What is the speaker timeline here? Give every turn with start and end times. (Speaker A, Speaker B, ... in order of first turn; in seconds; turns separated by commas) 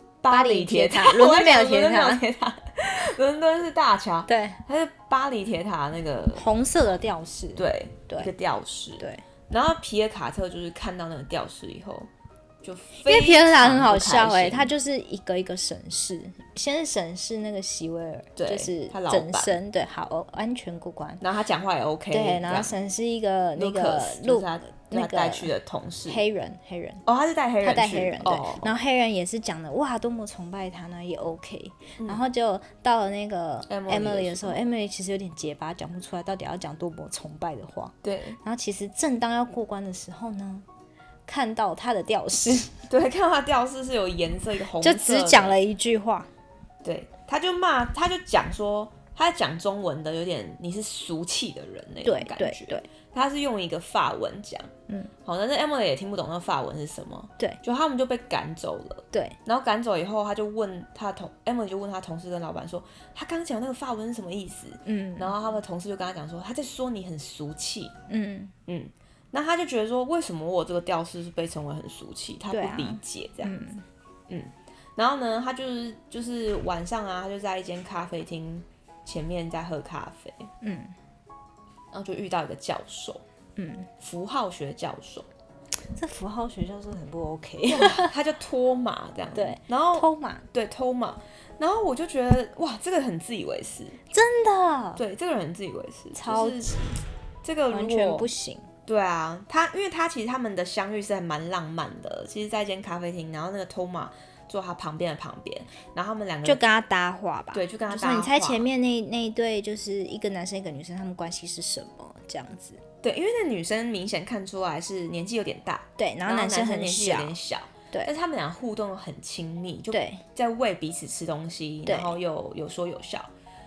Speaker A: 0.2-6.5, Speaker B: 0.3-2.2, Speaker B: 4.3-4.6, Speaker B: 6.3-8.3, Speaker A: 7.5-12.1, Speaker A: 12.6-14.7, Speaker B: 13.0-21.2, Speaker A: 18.4-19.6, Speaker A: 21.2-22.7, Speaker B: 22.1-25.5, Speaker A: 23.6-26.2, Speaker B: 26.1-27.0, Speaker A: 27.1-28.7, Speaker B: 27.6-40.6, Speaker A: 33.7-34.7, Speaker A: 38.0-38.4, Speaker B: 41.3-42.8, Speaker A: 42.9-45.6, Speaker B: 44.8-46.3, Speaker A: 46.8-54.7, Speaker B: 52.0-52.9, Speaker A: 55.2-67.9, Speaker B: 59.1-59.4, Speaker B: 64.8-65.3, Speaker B: 68.1-68.5, Speaker A: 68.7-73.6, Speaker B: 72.5-73.8, Speaker A: 74.3-80.5, Speaker B: 80.6-80.9, Speaker A: 81.9-83.2, Speaker B: 83.6-83.9, Speaker A: 84.0-85.3, Speaker B: 85.9-88.1, Speaker A: 87.7-94.0, Speaker B: 89.3-90.4, Speaker B: 94.1-95.0, Speaker A: 95.0-98.3, Speaker B: 96.1-96.9, Speaker B: 97.7-98.7, Speaker A: 98.8-106.6, Speaker B: 106.4-112.8, Speaker A: 107.5-108.7, Speaker A: 113.0-123.3, Speaker B: 116.0-117.3, Speaker B: 119.9-120.2, Speaker B: 121.8-122.1